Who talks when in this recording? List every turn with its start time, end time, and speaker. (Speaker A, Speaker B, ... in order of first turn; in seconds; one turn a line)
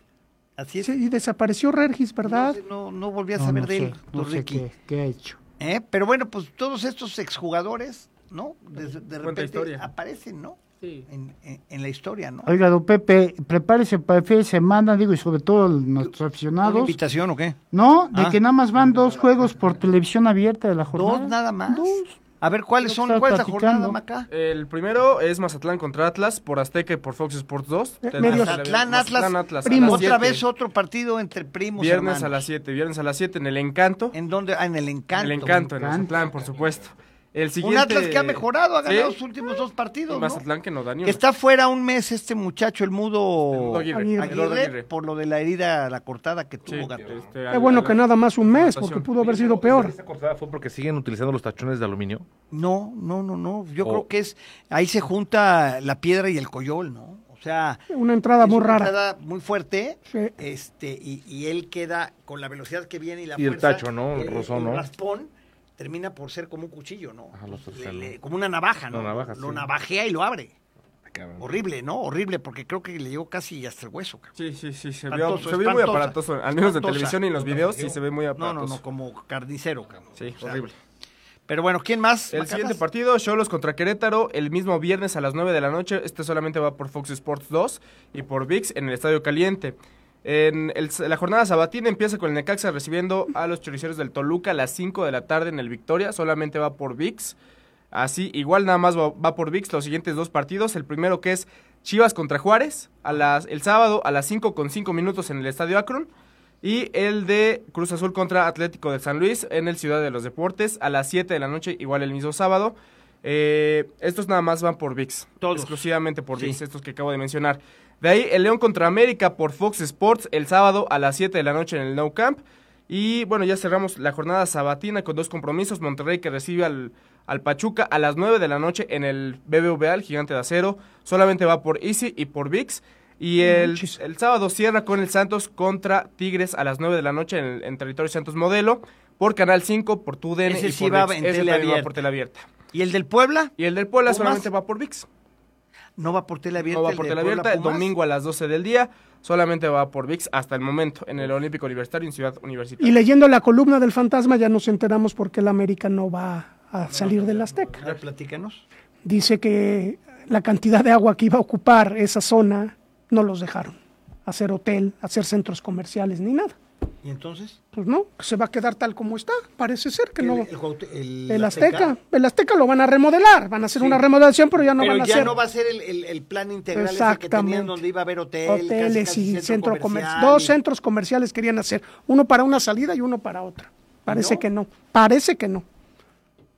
Speaker A: 0.6-0.9
Speaker B: 0.8-2.6
Speaker A: 2.2-4.6
Speaker C: 3.4-5.4
Speaker A: 5.6-12.5
Speaker D: 9.2-9.9
Speaker C: 12.4-17.0
Speaker A: 16.6-17.6
Speaker C: 17.7-22.2
Speaker A: 20.9-24.3
Speaker C: 22.8-24.0
Speaker D: 24.3-30.4
Speaker B: 28.1-28.6
Speaker A: 28.2-32.5
Speaker B: 29.6-30.1
Speaker D: 31.8-34.1
Speaker A: 34.1-35.7
Speaker D: 35.1-39.2
Speaker C: 35.5-36.2
Speaker E: 36.2-36.8
Speaker A: 37.6-40.4
Speaker D: 40.1-41.2
Speaker A: 41.0-47.2
Speaker D: 43.5-44.9
Speaker B: 43.9-44.3
Speaker E: 46.7-47.9
Speaker D: 46.7-49.1
Speaker B: 47.5-50.0
Speaker E: 49.2-52.3
Speaker A: 52.5-57.8
Speaker B: 57.9-58.9
Speaker A: 58.4-70.5
Speaker E: 63.4-64.9
Speaker E: 67.3-68.1
Speaker E: 68.9-69.7
Speaker E: 71.1-71.5
Speaker A: 71.4-74.3
Speaker D: 74.4-78.8
Speaker A: 75.1-77.2
Speaker E: 77.4-78.0
Speaker A: 78.4-80.6
Speaker D: 80.2-80.8
Speaker A: 81.5-82.8
Speaker D: 82.3-97.4
Speaker D: 97.9-106.1
Speaker D: 106.6-142.5
Speaker A: 115.4-115.8
Speaker B: 133.4-133.9
Speaker A: 140.4-141.9
Speaker A: 142.7-143.5
Speaker D: 143.6-145.1
Speaker A: 144.1-144.4
Speaker A: 146.0-147.9
Speaker D: 146.6-153.0
Speaker B: 152.8-157.8
Speaker D: 156.9-158.0
Speaker A: 157.8-158.6
Speaker B: 159.0-166.6
Speaker A: 167.0-167.6
Speaker B: 167.7-170.5
Speaker A: 170.2-171.9
Speaker B: 171.3-175.3
Speaker A: 173.8-174.0
Speaker A: 174.6-180.6
Speaker B: 176.7-177.8
Speaker B: 178.4-185.6
Speaker A: 184.1-184.4